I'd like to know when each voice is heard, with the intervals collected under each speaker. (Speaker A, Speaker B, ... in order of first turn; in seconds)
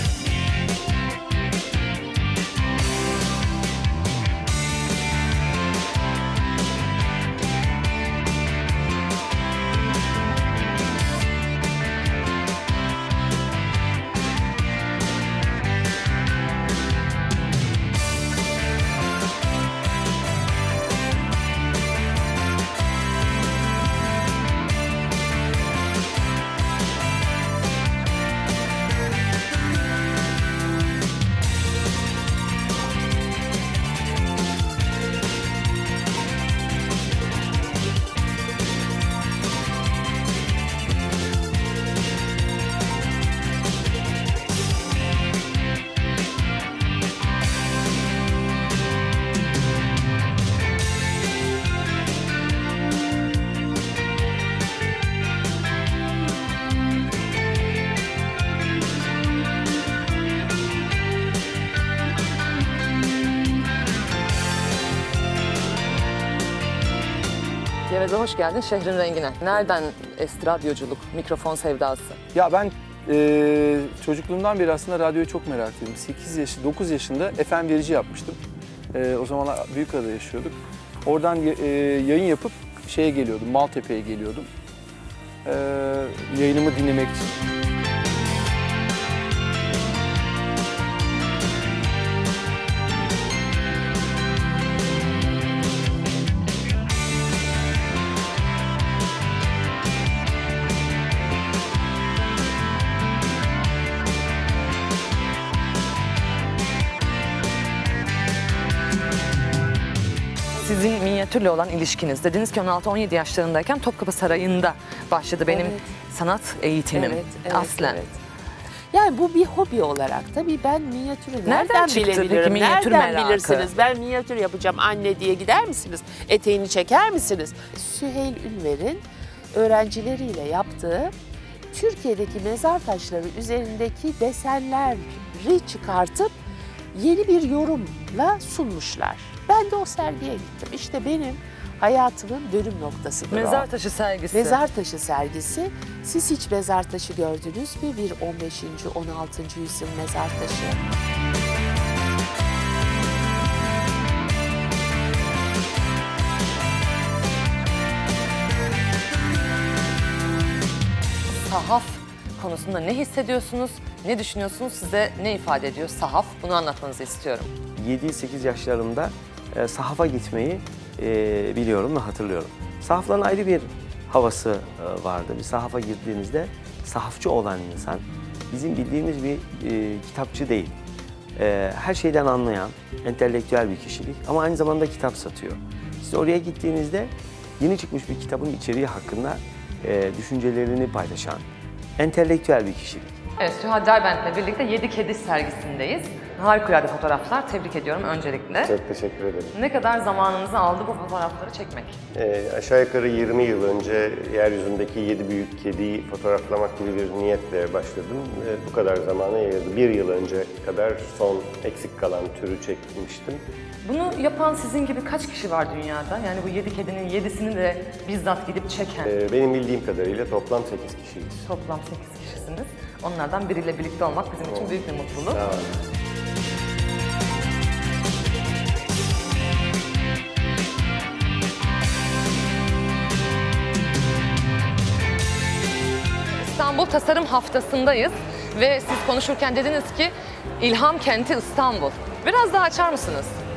Speaker A: 67.9-72.2, 110.5-118.0, 121.5-123.7, 143.3-144.6, 161.3-167.5, 193.4-198.7, 199.5-202.0, 213.8-219.1, 221.5-225.4, 236.4-243.3
Speaker B: 72.3-78.4, 78.9-80.5, 81.1-84.5, 85.5-87.4
Speaker C: 115.5-115.9, 116.9-118.2, 118.9-131.1, 131.7-136.4, 136.9-143.7, 144.3-150.8
Speaker D: 167.8-180.8, 181.4-191.5, 192.0-193.2
Speaker E: 198.6-199.5, 202.1-213.4, 219.1-221.4, 224.4-225.8